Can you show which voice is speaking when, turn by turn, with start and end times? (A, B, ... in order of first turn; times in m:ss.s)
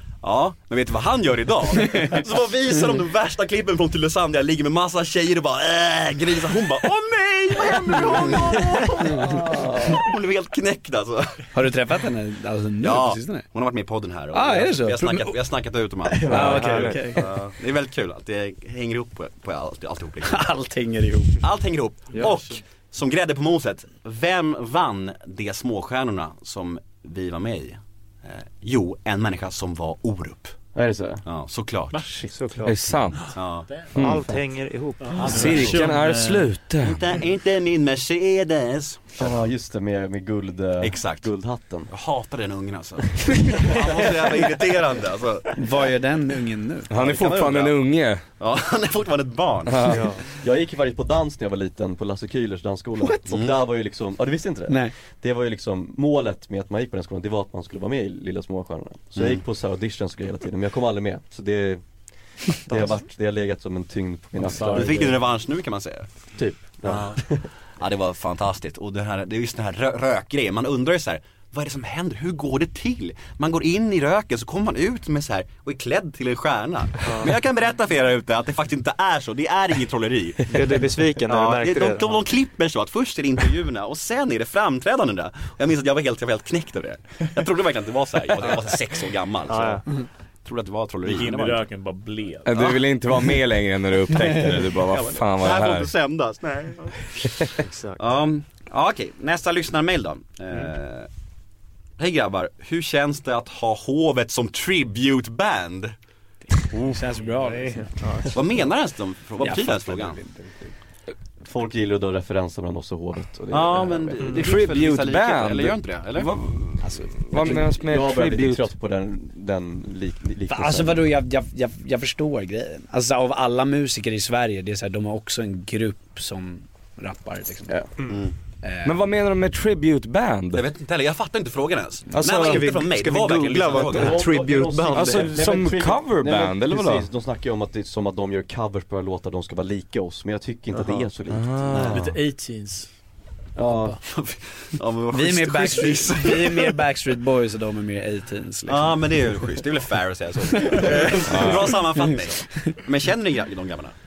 0:00.2-0:11.5 A
0:09.1-0:10.1 B
0:11.5-0:13.4 C
0:12.8-0:20.5 A
0:14.3-0:15.3 C
0:16.2-0:17.2 B
0:16.3-0:17.2 C
0:16.3-0:17.3 D
0:20.2-0:21.4 C
0:21.4-0:30.6 A
0:30.7-0:31.2 B
0:31.2-0:32.0 A
0:32.3-0:33.1 D
0:32.6-0:34.3 E
0:33.3-0:33.7 A
0:33.7-0:34.2 F
0:33.9-0:35.8 D
0:35.0-0:36.5 F
0:35.2-0:36.0 A
0:35.3-0:37.0 E
0:36.8-0:39.4 A
0:39.2-0:41.9 B
0:40.8-0:41.3 A
0:41.9-0:45.6 A
0:45.6-0:46.9 C
0:46.9-0:48.2 E
0:47.0-0:47.8 A
0:48.4-0:49.9 A
0:49.7-0:50.1 E
0:49.8-0:50.2 D
0:50.2-1:05.1 B
0:53.3-0:53.5 A
0:54.7-0:54.9 C
0:59.1-0:59.4 A
1:02.7-1:03.0 D
1:04.4-1:05.2 F
1:04.7-1:06.1 A
1:06.4-1:07.5 B
1:06.6-1:07.2 A
1:06.9-1:07.1 D
1:07.8-1:20.6 A
1:17.0-1:17.3 D
1:20.5-1:22.2 D
1:21.2-1:31.6 A
1:29.5-1:30.1 D
1:31.0-1:32.6 F
1:32.4-1:35.9 E
1:34.9-1:37.3 A
1:36.4-1:36.8 F
1:37.6-1:38.0 D
1:38.0-1:41.1 A
1:42.0-1:45.9 A
1:46.6-1:48.3 C
1:47.5-1:48.4 D
1:48.3-1:50.2 A
1:49.4-1:50.7 C
1:51.4-1:54.4 B
1:53.5-1:56.3 A
1:54.3-1:58.7 E
1:56.8-1:57.7 C
1:57.8-2:01.1 B
2:00.5-2:07.9 C
2:08.0-2:08.2 D
2:08.1-2:08.3 A
2:08.6-2:09.0 C
2:08.8-2:10.6 E
2:10.5-2:14.2 A
2:12.1-2:12.8 E
2:12.2-2:15.4 D
2:13.9-2:22.1 B
2:14.9-2:17.1 E
2:20.7-2:21.0 D
2:21.3-2:22.0 E
2:21.7-2:22.0 A
2:21.9-2:23.0 F
2:23.6-2:24.0 B
2:23.6-2:24.0 F
2:24.0-2:26.8 A
2:25.1-2:29.1 C
2:28.7-2:33.9 A
2:30.7-2:31.5 C
2:31.3-2:31.7 E